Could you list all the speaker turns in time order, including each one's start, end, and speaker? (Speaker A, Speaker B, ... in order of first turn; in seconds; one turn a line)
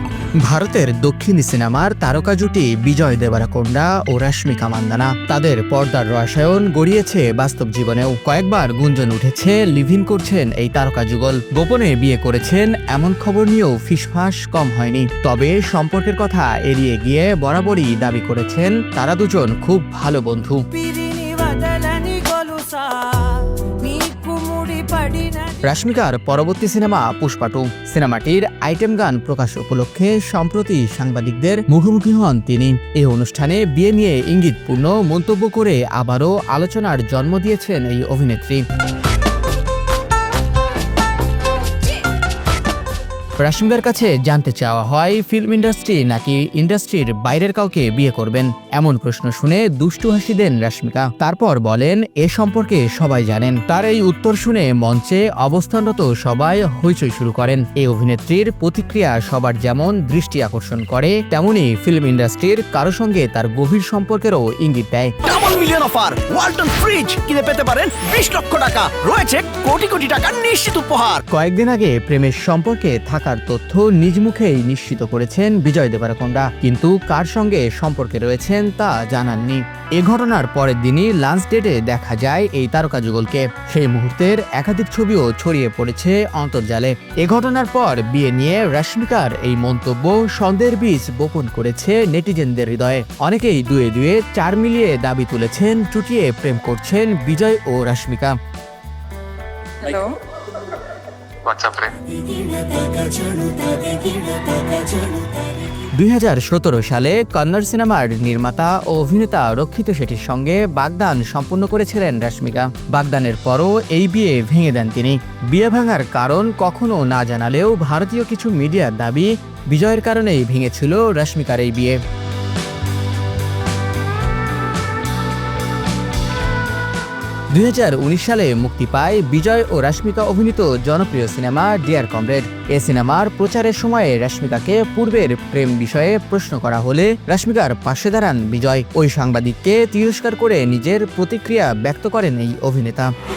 Speaker A: 0.4-20.6
Speaker B: 20.7-25.6
Speaker A: 25.6-38.6
Speaker A: 43.4-65.1
Speaker C: 65.2-71.2
Speaker A: 71.3-98.3
Speaker B: 99.8-100.2
Speaker B: 101.9-105.6
Speaker A: 105.8-122.0
Speaker A: 127.5-143.1